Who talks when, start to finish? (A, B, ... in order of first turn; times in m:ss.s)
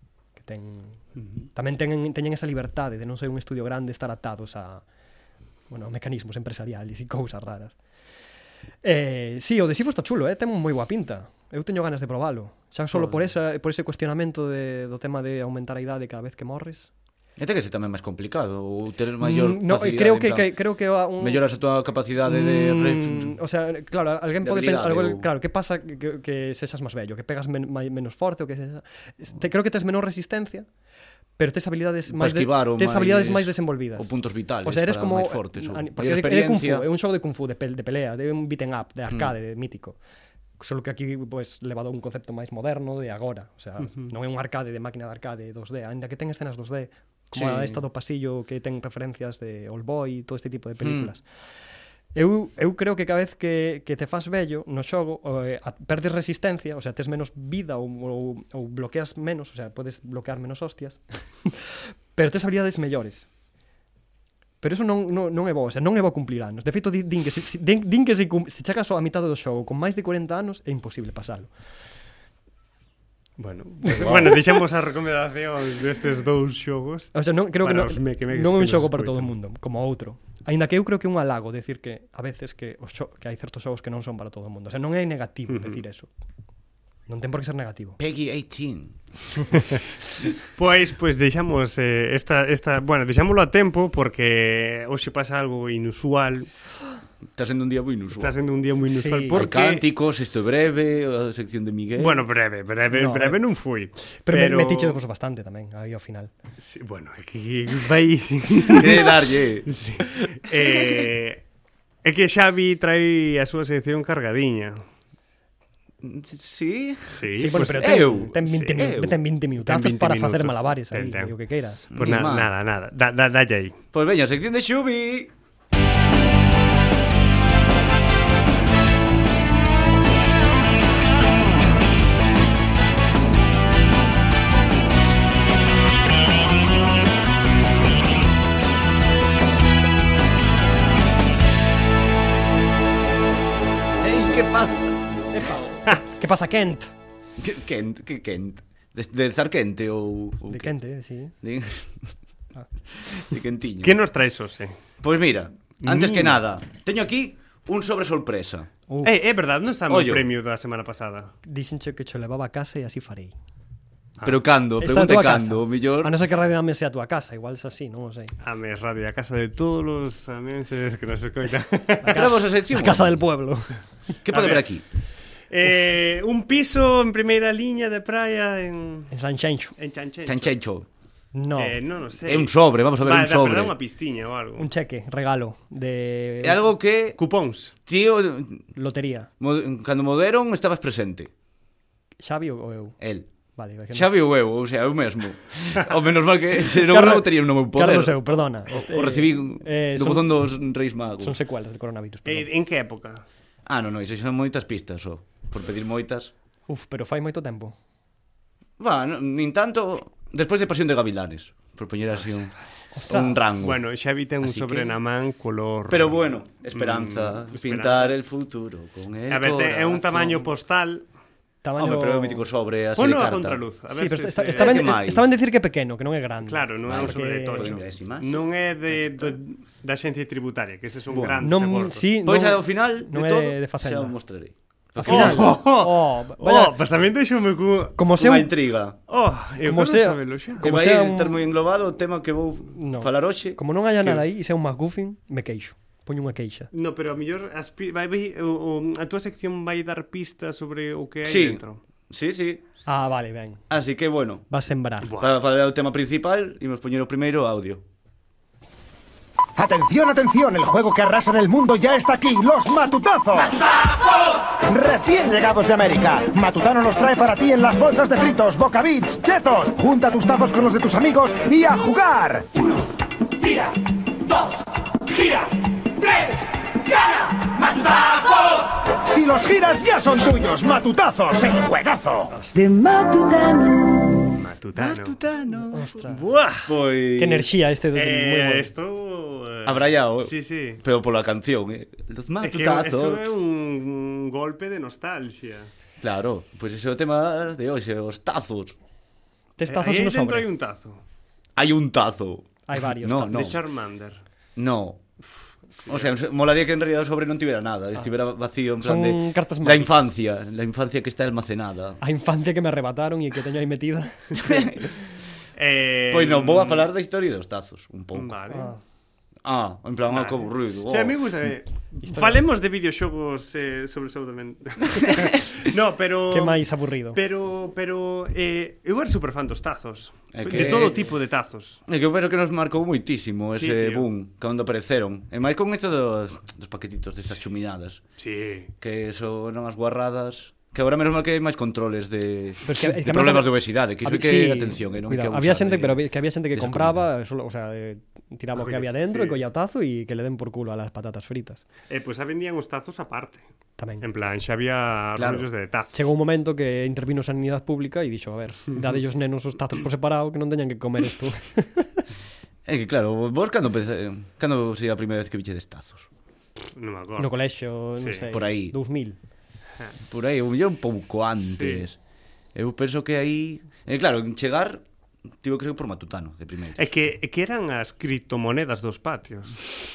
0:00.4-0:01.0 A
0:01.2-0:01.4 B
0:01.5-0:04.8 A
0:05.7-0:07.7 A
0:08.8-0:16.9 A
0:12.9-0:13.2 C
0:17.4-0:20.6 C
0:19.2-0:21.4 A
0:21.2-0:23.4 C
0:22.2-0:30.7 A
0:24.4-0:25.3 C
0:31.4-0:34.1 A
0:32.1-0:36.9 C
0:34.6-0:40.0 A
0:40.6-0:51.2 A
0:47.3-0:47.8 C
0:50.8-0:51.1 C
0:52.1-1:03.3 A
1:04.6-1:11.5 A
1:13.4-1:19.3 B
1:13.9-1:14.4 A
1:17.1-1:26.1 A
1:25.5-1:25.8 B
1:27.1-1:28.0 A
1:28.0-1:29.0 C
1:30.5-1:36.5 B
1:37.3-1:38.4 C
1:38.1-1:39.8 B
1:38.9-1:39.4 A
1:39.3-1:42.2 C
1:42.0-1:45.0 B
1:42.9-1:43.4 A
1:44.3-1:46.3 A
1:46.6-1:51.4 B
1:48.7-1:49.7 C
1:52.0-1:54.8 B
1:56.0-1:59.2 C
1:57.1-1:57.9 B
1:57.3-2:01.8 A
1:59.6-2:01.3 B
2:01.9-2:02.5 C
2:01.9-2:03.8 B
2:03.9-2:05.3 C
2:24.0-2:25.2 C
2:25.3-2:26.9 A
2:27.4-2:30.7 C
2:30.5-2:31.3 A
2:31.4-2:32.1 C
2:33.0-2:34.0 C
2:33.8-2:34.8 B
2:35.0-2:38.7 C
2:35.8-2:36.4 B
2:39.0-2:41.3 B
2:39.9-2:40.3 C
2:41.4-2:43.3 A
2:44.2-2:46.2 C
2:44.8-2:48.3 A
2:48.4-2:52.2 B
2:52.0-2:53.8 A
2:52.1-2:53.2 C
2:54.2-2:54.8 C
2:54.3-2:54.7 B
2:55.5-2:59.1 B
2:59.1-2:59.7 A
2:59.8-3:00.6 B
3:00.2-3:00.9 C
3:01.3-3:01.8 A
3:01.6-3:04.7 B
3:02.2-3:03.8 C
3:04.6-3:06.6 A
3:06.4-3:07.2 C
3:07.2-3:07.7 B
3:07.9-3:08.7 C
3:08.7-3:09.3 A
3:09.4-3:11.3 C
3:12.2-3:13.0 A
3:13.0-3:13.3 C
3:13.6-3:14.1 A
3:13.9-3:21.4 C
3:16.7-3:20.4 A
3:21.2-3:22.5 A
3:22.2-3:23.2 B
3:23.6-3:26.3 C
3:26.7-3:27.8 A
3:28.8-3:32.5 C
3:32.9-3:33.4 A
3:33.1-3:33.8 C
3:33.6-3:38.1 B
3:34.4-3:35.0 C
3:35.9-3:40.5 C
3:39.3-3:41.0 B
3:41.6-3:42.4 A
3:41.8-3:43.6 C
3:43.0-3:44.9 B
3:43.9-3:47.7 A
3:44.5-3:45.3 C
3:46.4-3:52.1 B
3:46.8-3:48.5 C
3:51.1-3:51.5 C
3:51.4-3:54.2 A
3:52.2-3:55.6 C
3:55.0-3:56.8 A
3:55.0-3:58.0 B
3:58.0-3:58.5 A
3:58.2-3:59.0 C
3:59.1-4:00.7 B
3:59.6-4:01.5 A
4:00.6-4:04.2 C
4:02.7-4:06.7 A
4:06.7-4:11.8 B
4:11.2-4:12.6 C
4:12.8-4:13.6 A
4:13.7-4:14.4 C
4:14.5-4:15.1 A
4:15.0-4:15.3 B
4:15.2-4:17.8 C
4:19.6-4:23.6 D
4:24.6-4:32.5 D
4:37.7-4:38.5 D
4:39.0-4:42.3 D
4:42.3-4:42.6 A
4:44.4-4:45.2 B
4:44.8-4:46.1 C
4:45.7-4:46.2 A
4:46.1-4:46.7 B
4:46.6-4:47.5 C
4:47.2-4:48.7 A
4:47.9-4:50.8 B
4:49.6-4:53.4 C
4:52.4-4:55.7 B
4:56.0-4:58.7 C
4:59.6-5:00.5 A
4:59.7-5:01.0 B
5:01.6-5:03.6 C
5:02.7-5:03.5 A
5:03.3-5:04.2 B
5:04.6-5:05.0 C
5:05.8-5:06.1 B
5:05.8-5:12.0 C
5:08.8-5:09.9 A
5:12.0-5:14.7 A
5:14.3-5:14.8 C
5:15.6-5:16.9 B
5:16.1-5:18.4 C
5:18.1-5:18.7 B
5:18.5-5:18.8 A
5:19.4-5:21.2 C
5:20.1-5:31.8 B
5:22.0-5:22.4 A
5:25.1-5:25.3 C
5:26.3-5:27.2 A
5:30.3-5:31.0 C
5:30.5-5:31.0 A
5:31.9-5:38.0 C
5:33.5-5:34.1 B
5:38.2-5:38.7 B
5:38.8-5:47.1 C
5:42.6-5:51.6 A
5:48.5-5:49.4 B
5:51.9-5:53.4 B
5:53.8-5:54.0 A
5:54.0-5:56.0 B
5:55.2-5:55.5 C
5:55.9-6:02.0 A
6:02.6-6:06.1 C
6:06.7-6:07.3 B
6:07.2-6:09.2 A
6:08.0-6:08.2 B
6:08.3-6:08.8 C
6:10.1-6:12.0 C
6:11.4-6:11.8 B
6:12.5-6:14.8 C
6:15.4-6:16.8 C
6:16.8-6:19.6 B